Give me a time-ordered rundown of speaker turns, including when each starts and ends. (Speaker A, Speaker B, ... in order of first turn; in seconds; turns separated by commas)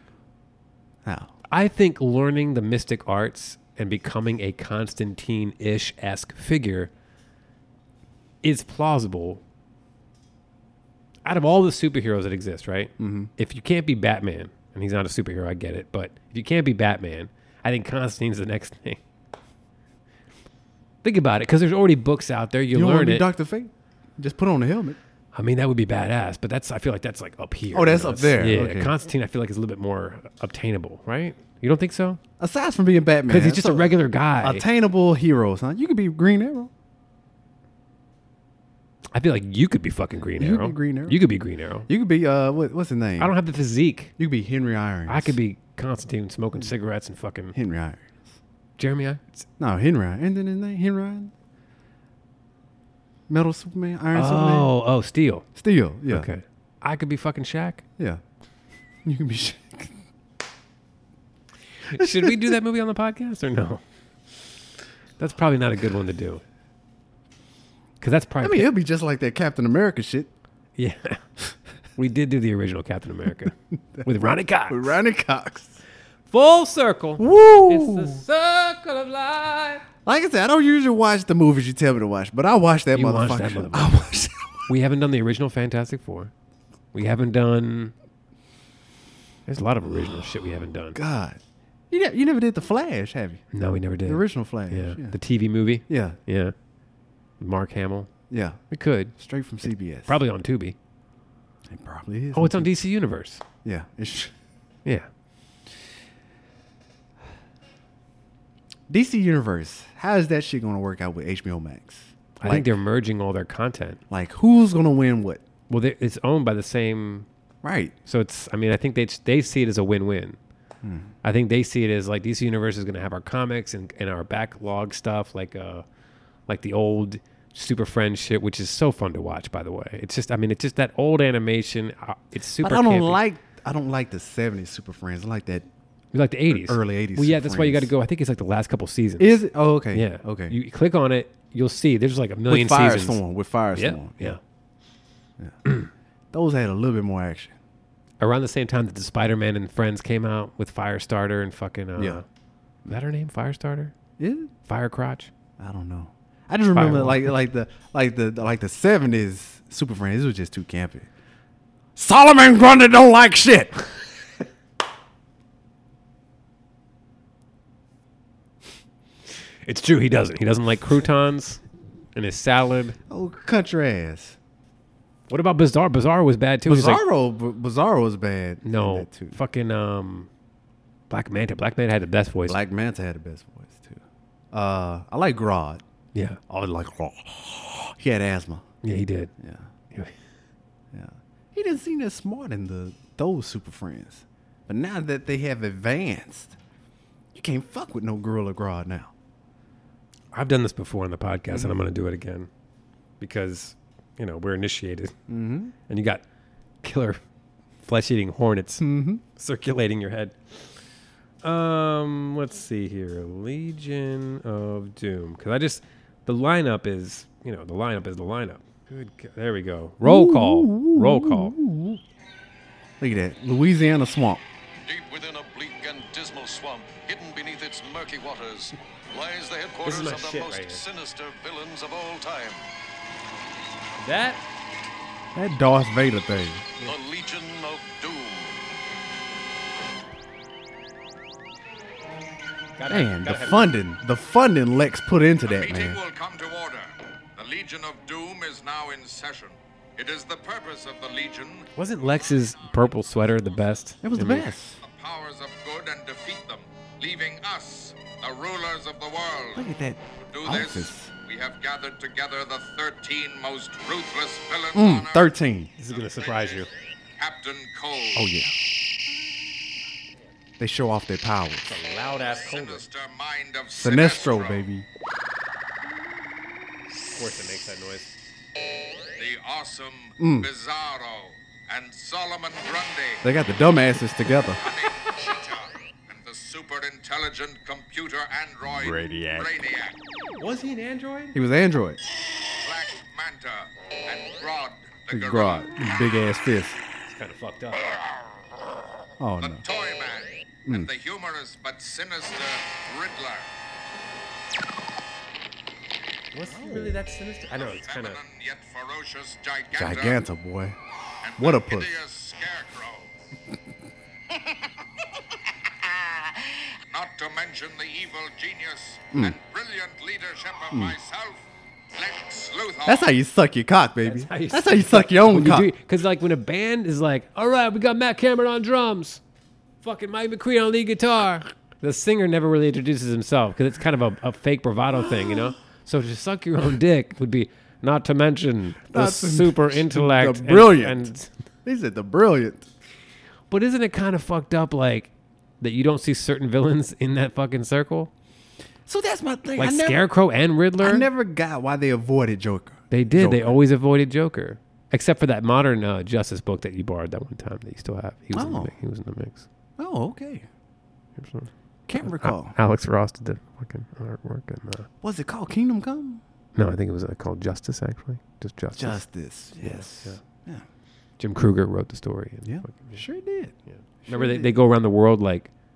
Speaker A: 1.1-1.3, Speaker B: 1.5-6.9, Speaker B: 8.4-9.4, Speaker B: 11.2-19.0, Speaker A: 13.0-13.3, Speaker B: 21.0-23.3, Speaker A: 22.7-25.0, Speaker B: 25.4-32.2, Speaker A: 27.7-28.9, Speaker A: 32.4-36.7, Speaker B: 33.3-34.6, Speaker B: 39.1-41.9, Speaker A: 40.4-41.2, Speaker A: 41.9-43.4, Speaker B: 43.2-44.1, Speaker A: 44.2-45.4, Speaker B: 45.1-47.6, Speaker A: 47.5-48.3, Speaker B: 48.8-49.4, Speaker A: 49.6-51.3, Speaker A: 53.3-54.7, Speaker B: 54.1-55.5, Speaker A: 55.5-56.3, Speaker B: 56.1-57.8, Speaker A: 59.0-60.0, Speaker B: 61.9-63.8, Speaker A: 62.0-62.4, Speaker B: 65.2-66.4, Speaker B: 68.0-68.7, Speaker A: 68.4-70.3, Speaker B: 70.8-71.2, Speaker B: 72.0-75.0, Speaker A: 74.7-75.8, Speaker B: 76.3-79.8, Speaker A: 77.2-78.2, Speaker A: 80.0-84.6, Speaker B: 82.9-83.9, Speaker B: 84.7-86.3, Speaker B: 86.9-87.9, Speaker B: 89.5-91.0, Speaker A: 90.9-91.4, Speaker A: 91.9-93.4, Speaker B: 93.5-96.5, Speaker A: 94.1-95.2, Speaker A: 95.9-96.2, Speaker B: 97.4-98.1, Speaker A: 98.3-98.6, Speaker B: 98.7-99.1, Speaker A: 99.2-100.2, Speaker B: 100.0-100.8, Speaker A: 101.7-102.7, Speaker B: 102.3-103.4, Speaker A: 103.6-104.3, Speaker A: 108.9-112.8, Speaker B: 112.4-114.0, Speaker A: 114.1-115.4, Speaker B: 115.7-117.3, Speaker A: 117.6-118.0, Speaker B: 118.1-120.4, Speaker A: 120.8-121.1, Speaker B: 121.2-125.8, Speaker B: 126.5-133.2, Speaker A: 132.6-135.7, Speaker B: 136.1-139.3, Speaker A: 136.5-137.9, Speaker A: 139.2-140.6, Speaker B: 139.9-143.2, Speaker A: 142.5-144.4, Speaker B: 143.8-144.4, Speaker A: 146.3-147.6, Speaker B: 148.2-152.2, Speaker A: 152.0-152.2, Speaker B: 152.9-153.9, Speaker A: 154.2-154.5, Speaker B: 154.7-155.3, Speaker A: 155.6-161.1, Speaker B: 156.8-157.3, Speaker A: 162.0-163.9, Speaker B: 169.7-171.6, Speaker B: 172.2-173.0, Speaker A: 173.1-174.4, Speaker B: 175.3-177.0, Speaker A: 176.7-179.4, Speaker B: 178.6-180.3, Speaker B: 181.1-182.6, Speaker A: 182.4-184.0, Speaker A: 184.5-185.8, Speaker B: 186.1-186.4, Speaker A: 186.5-188.7, Speaker B: 188.8-189.3, Speaker A: 189.4-189.7, Speaker A: 190.9-196.6, Speaker A: 197.3-199.1, Speaker B: 200.3-202.5, Speaker A: 201.5-201.8, Speaker B: 203.2-205.2, Speaker A: 205.3-205.7, Speaker B: 205.9-206.2, Speaker B: 206.8-207.2, Speaker B: 207.8-208.8, Speaker A: 208.8-209.2, Speaker B: 209.4-210.4, Speaker B: 211.4-221.6, Speaker A: 220.0-222.0, Speaker A: 223.0-224.4, Speaker C: 224.8-232.7, Speaker B: 229.8-230.8, Speaker B: 234.0-234.4, Speaker A: 235.3-236.7, Speaker C: 236.8-238.6, Speaker B: 242.8-243.7, Speaker A: 242.9-246.0, Speaker D: 245.4-253.8, Speaker B: 251.8-254.5, Speaker A: 254.0-254.8, Speaker D: 254.8-259.6, Speaker A: 259.6-261.1, Speaker D: 260.2-265.3, Speaker A: 264.8-265.7, Speaker B: 265.8-266.7, Speaker D: 265.9-268.3, Speaker A: 268.1-268.5, Speaker A: 270.6-271.7, Speaker B: 271.7-272.8, Speaker D: 272.2-274.7, Speaker A: 273.8-274.9, Speaker B: 276.9-278.1, Speaker D: 279.2-283.3, Speaker A: 280.2-280.5, Speaker A: 283.2-284.6, Speaker D: 284.6-290.0, Speaker A: 288.7-289.5, Speaker B: 290.4-291.4, Speaker A: 291.3-292.0, Speaker D: 292.6-295.7, Speaker A: 295.1-296.8, Speaker B: 297.1-298.0, Speaker A: 299.2-299.6, Speaker D: 299.4-303.5, Speaker B: 306.3-308.2, Speaker A: 306.5-307.0, Speaker D: 307.5-310.2, Speaker A: 309.8-310.8, Speaker D: 311.2-313.1, Speaker A: 311.4-311.9, Speaker D: 316.9-323.1, Speaker A: 322.9-325.7, Speaker B: 324.0-329.2, Speaker B: 329.8-341.3, Speaker A: 335.0-335.5, Speaker A: 338.9-341.1, Speaker A: 341.6-342.7, Speaker B: 343.5-348.1, Speaker A: 348.9-350.1, Speaker B: 349.6-351.1, Speaker A: 350.8-353.6, Speaker B: 352.9-359.5, Speaker A: 358.3-358.7, Speaker A: 359.8-360.5, Speaker B: 361.2-364.9, Speaker A: 361.9-362.6, Speaker A: 365.0-366.2, Speaker B: 366.6-369.0, Speaker A: 368.7-370.6, Speaker B: 369.6-370.2, Speaker B: 371.2-373.0, Speaker A: 372.4-374.6, Speaker B: 373.7-375.5